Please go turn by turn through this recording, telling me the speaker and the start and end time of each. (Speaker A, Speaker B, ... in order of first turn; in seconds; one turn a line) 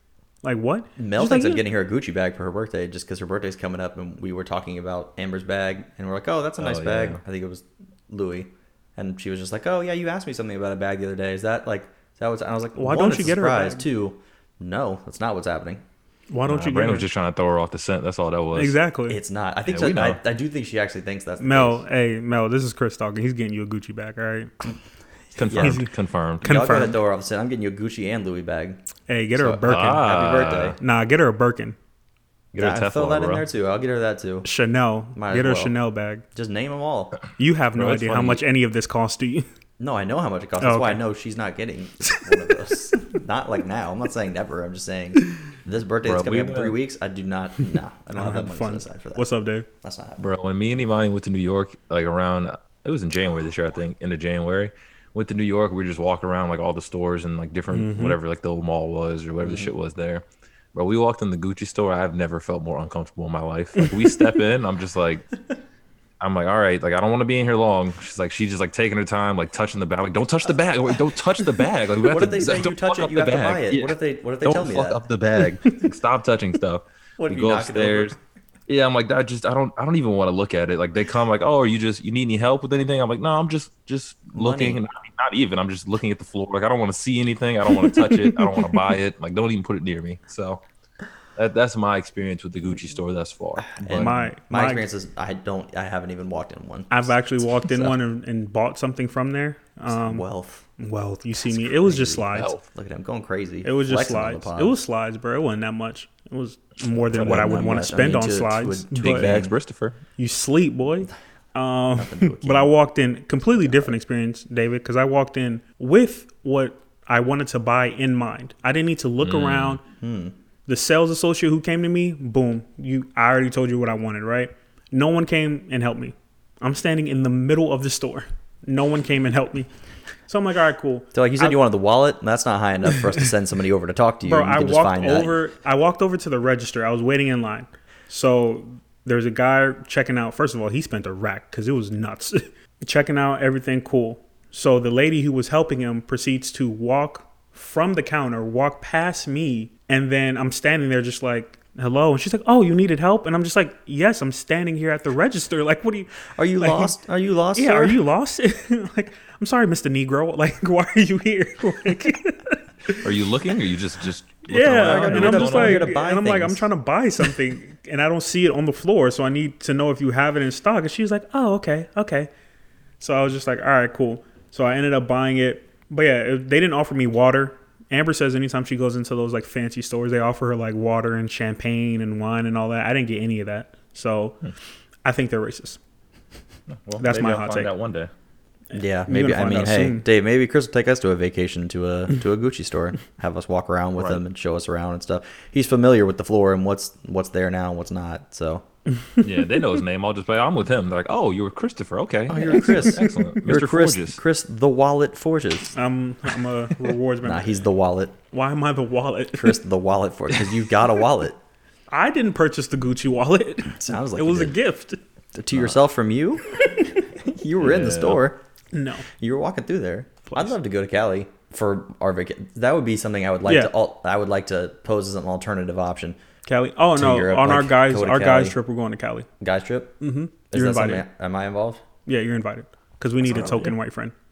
Speaker A: 0.4-1.6
Speaker B: 1.0-15.8
Speaker C: 6.6-7.2
Speaker A: 12.8-13.8
Speaker A: 16.3-17.1
Speaker C: 16.4-18.8
Speaker A: 18.5-19.2
Speaker B: 19.1-21.8
Speaker C: 19.7-20.2
Speaker A: 21.4-24.5
Speaker C: 25.4-26.5
Speaker B: 25.5-25.8
Speaker A: 25.5-25.9
Speaker A: 26.4-27.0
Speaker B: 26.4-28.8
Speaker A: 29.1-30.1
Speaker B: 29.4-30.8
Speaker C: 29.7-30.8
Speaker A: 30.8-31.8
Speaker C: 32.5-33.4
Speaker B: 32.6-34.5
Speaker A: 34.4-36.2
Speaker B: 35.1-35.7
Speaker B: 36.3-37.2
Speaker A: 37.4-39.5
Speaker C: 37.7-38.4
Speaker B: 39.8-49.3
Speaker A: 40.6-41.0
Speaker C: 46.0-46.7
Speaker A: 48.1-49.6
Speaker B: 49.8-50.2
Speaker C: 50.2-65.3
Speaker A: 57.7-58.2
Speaker B: 59.4-59.7
Speaker C: 66.2-78.2
Speaker B: 72.0-75.0
Speaker B: 77.2-78.2
Speaker C: 78.7-90.6
Speaker B: 84.3-84.8
Speaker A: 87.9-88.6
Speaker C: 91.3-94.1
Speaker B: 93.7-98.0
Speaker A: 93.9-94.8
Speaker A: 96.9-100.2
Speaker B: 99.9-100.7
Speaker A: 100.8-102.5
Speaker B: 101.7-104.8
Speaker C: 102.3-102.6
Speaker A: 103.6-109.3
Speaker C: 107.1-107.7
Speaker B: 107.1-109.5
Speaker C: 109.0-110.0
Speaker A: 110.2-119.8
Speaker B: 111.9-112.7
Speaker B: 113.6-113.9
Speaker C: 119.2-119.8
Speaker B: 120.0-120.3
Speaker A: 120.7-129.7
Speaker A: 130.3-131.6
Speaker B: 131.1-135.4
Speaker A: 134.2-156.9
Speaker B: 156.3-158.0
Speaker A: 157.5-163.1
Speaker C: 163.0-165.9
Speaker A: 164.5-172.3
Speaker B: 164.8-166.7
Speaker A: 173.0-184.4
Speaker A: 185.0-185.8
Speaker C: 186.7-188.1
Speaker A: 187.0-187.7
Speaker A: 188.7-190.0
Speaker B: 188.7-198.6
Speaker C: 199.2-204.2
Speaker B: 202.3-205.7
Speaker A: 202.7-203.2
Speaker A: 205.7-207.6
Speaker B: 207.2-208.1
Speaker A: 208.3-209.6
Speaker B: 209.4-211.4
Speaker A: 211.9-215.0
Speaker B: 213.7-214.5
Speaker B: 215.3-218.4
Speaker C: 217.6-218.2
Speaker A: 218.7-219.1
Speaker B: 219.1-226.2
Speaker A: 223.4-223.7
Speaker A: 226.4-229.3
Speaker B: 226.9-228.6
Speaker B: 229.4-230.0
Speaker A: 230.0-231.1
Speaker B: 230.5-231.8
Speaker A: 232.1-234.1
Speaker B: 233.2-233.7